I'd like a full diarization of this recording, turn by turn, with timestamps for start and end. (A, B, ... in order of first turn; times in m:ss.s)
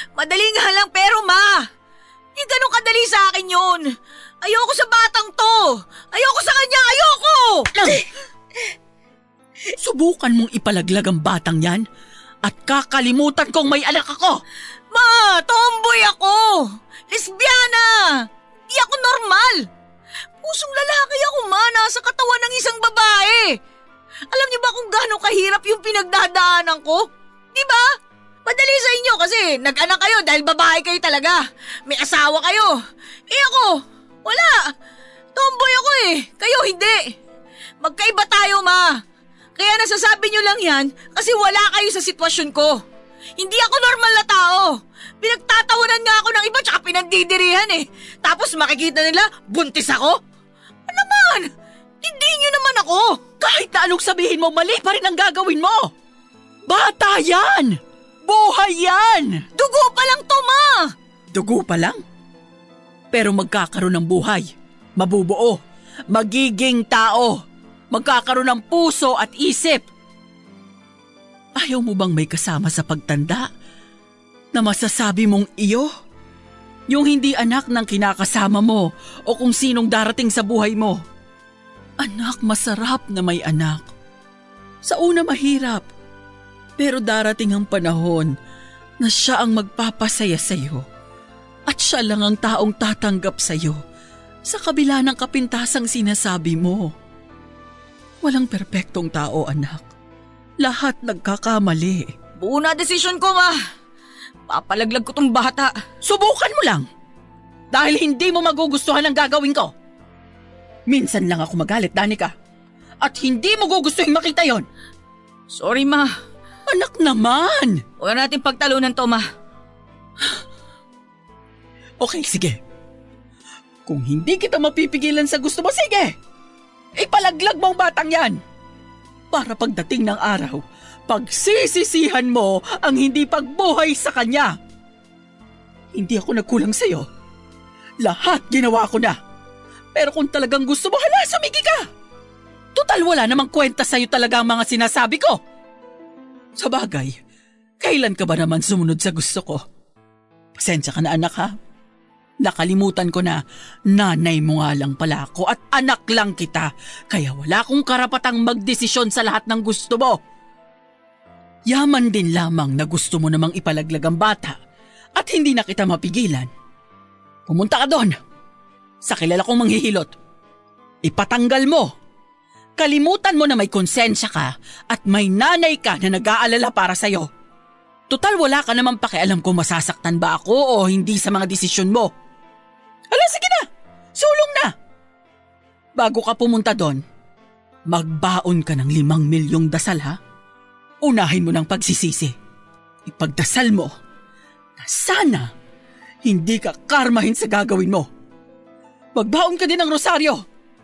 0:00.2-0:01.6 A
0:02.4-0:08.0 A
0:07.7-0:08.1 B
0:09.7-0:11.8 B
0:12.4-0:14.4 B
0:14.9-0:19.6 A
0:20.4-0:23.6 A
0:24.3-0:27.9 A
0:28.4-0:32.8 A
0:33.3-0:34.7 A
0:35.4-0:37.1 A
0:37.8-0:39.0 A
0:39.6-0:42.8 A
0:43.4-0:50.2 A
0:50.9-0:51.5 A
0:52.0-0:53.2 A
0:53.4-0:55.9 B
0:56.7-0:59.4 B
0:59.6-1:00.9 A
1:01.3-1:02.0 B
1:03.1-1:07.4 B
1:07.9-1:09.8 B
1:11.6-1:13.5 B
1:14.5-1:15.9 B
1:16.9-1:21.0 B
1:22.0-1:23.9 B
1:24.8-1:25.8 B
1:26.8-1:28.3 B
1:29.0-1:30.8 B
1:31.7-1:33.8 B
1:34.5-1:36.9 B
1:38.2-1:39.8 B
1:40.6-1:42.1 B
1:42.4-1:43.6 A
1:44.5-1:45.7 A
1:46.0-1:46.8 B
1:47.7-1:49.7 B
1:50.9-1:52.3 B
1:53.0-1:54.6 B
1:55.5-1:56.1 A
1:56.7-1:57.8 B
1:58.0-1:59.2 A
2:02.0-2:02.6 B
2:03.8-2:06.1 B
2:07.0-2:08.4 B
2:09.3-2:14.5 B
2:15.9-2:17.0 B
2:18.0-2:19.2 B
2:19.9-2:21.8 B
2:22.8-2:25.4 B
2:26.6-2:27.2 B
2:27.8-2:29.6 B
2:30.6-2:31.5 B
2:32.4-2:33.4 B
2:33.9-2:40.2 B
2:41.7-2:44.6 B
2:45.2-2:46.5 B
2:47.5-2:48.2 B
2:49.0-2:50.1 B
2:51.0-2:51.9 B
2:52.8-2:57.3 B
2:58.1-3:02.1 B
3:03.1-3:04.7 B
3:06.0-3:07.0 B
3:07.9-3:10.2 B
3:11.0-3:12.3 B
3:13.0-3:13.9 B
3:14.8-3:15.5 B
3:16.2-3:18.1 B
3:19.2-3:20.4 B